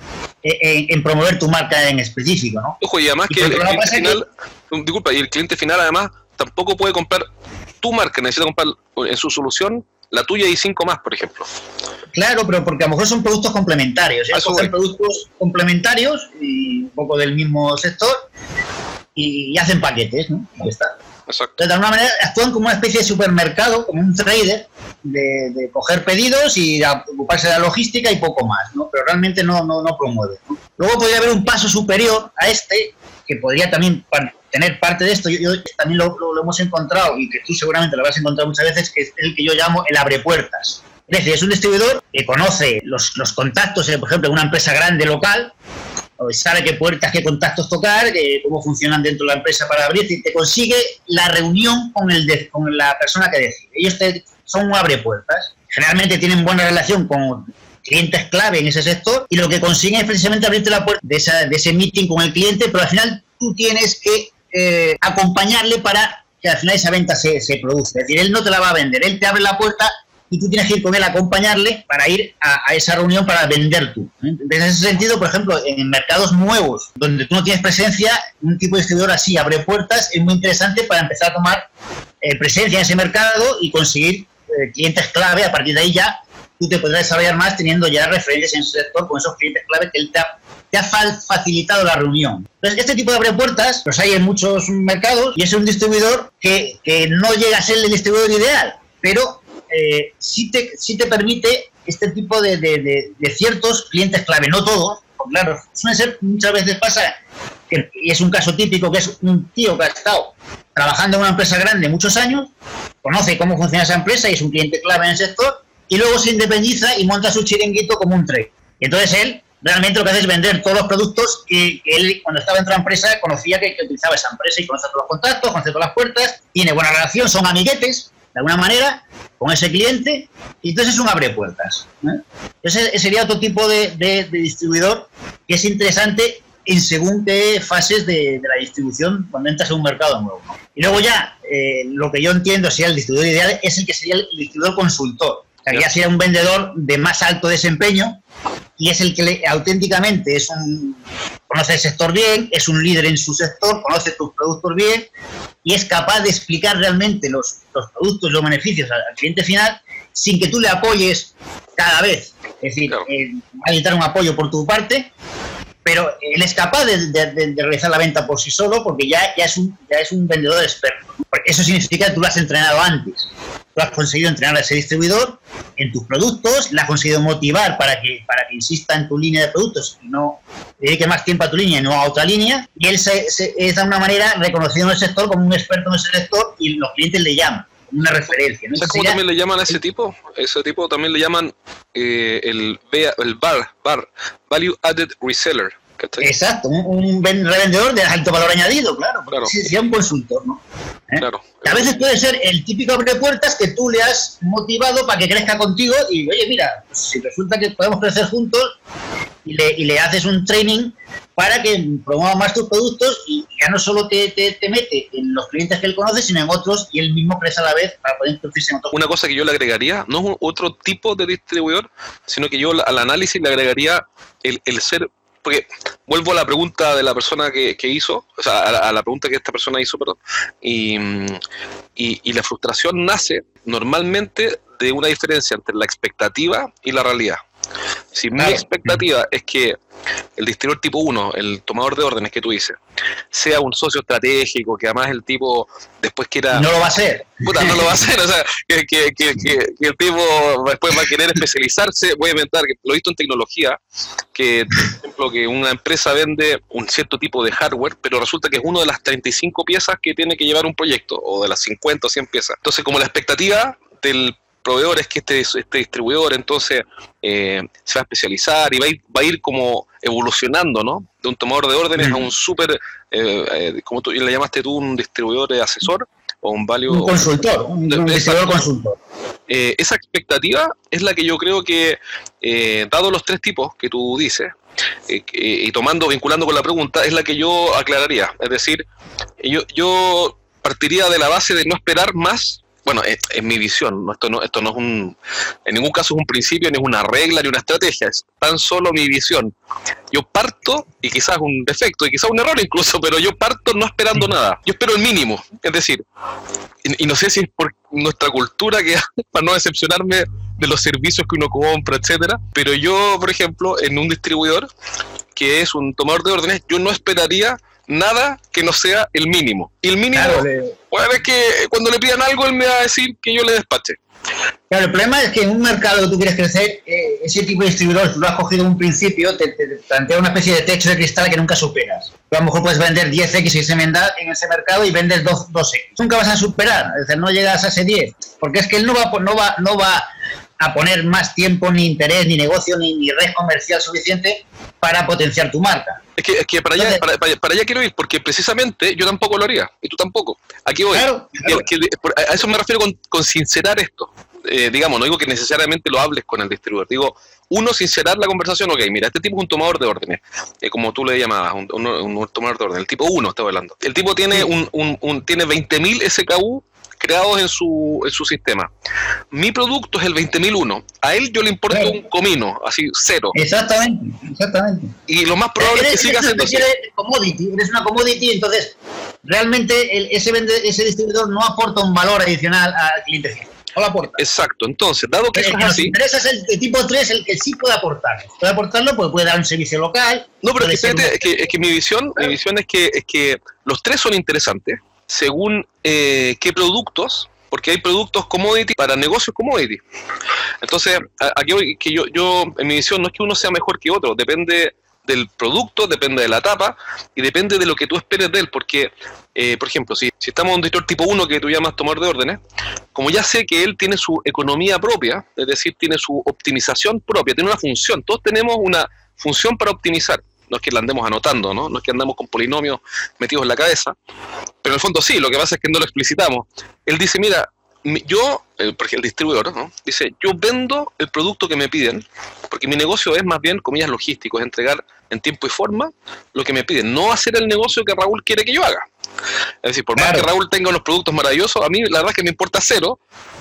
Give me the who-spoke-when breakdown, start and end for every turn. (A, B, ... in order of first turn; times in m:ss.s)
0:00.4-0:02.8 A
0:02.8-0:07.2 B
0:03.3-0:04.2 A
0:07.8-0:11.5 B
0:12.1-0:18.2 A
0:14.3-0:14.7 B
0:19.1-0:20.9 A
0:21.3-0:21.6 B
0:21.6-0:45.5 A
0:46.2-1:21.7 A
1:22.2-1:47.2 A
1:47.7-1:52.5 A
1:53.0-2:28.2 A
2:28.8-2:35.1 A
2:35.6-2:45.1 A
2:45.8-3:09.2 A
3:08.8-3:16.3 B
3:16.2-3:28.7 A
3:19.3-3:19.6 B
3:21.2-3:21.9 B
3:29.4-3:38.9 A
3:38.9-3:51.4 B
3:52.0-3:57.4 B
3:58.1-3:59.8 B
3:58.4-3:58.9 A
4:00.4-4:02.8 B
4:03.3-4:06.7 B
4:06.5-4:07.9 A
4:07.4-4:13.8 B
4:14.3-4:37.3 B
4:32.0-4:32.2 A
4:36.9-4:39.0 A
4:37.9-4:38.6 B
4:39.5-4:44.5 B
4:45.1-4:48.8 B
4:49.4-4:59.5 B
5:00.1-5:06.0 B
5:06.8-5:14.7 B
5:15.4-5:24.0 B
5:20.1-5:20.7 A
5:24.7-5:40.0 A
5:40.6-5:46.0 A
5:46.2-6:08.7 B
5:46.8-5:47.0 A
5:50.9-5:51.7 A
6:09.3-6:13.3 B
6:11.7-6:12.0 A
6:13.3-6:14.9 A
6:15.1-6:16.6 B
6:15.6-6:24.2 A
6:24.2-6:25.9 B
6:25.3-6:31.3 A
6:30.4-6:39.8 B
6:40.6-6:52.4 B
6:52.9-7:03.9 B
7:04.6-7:18.9 B
7:19.6-7:23.0 B
7:20.0-7:20.3 A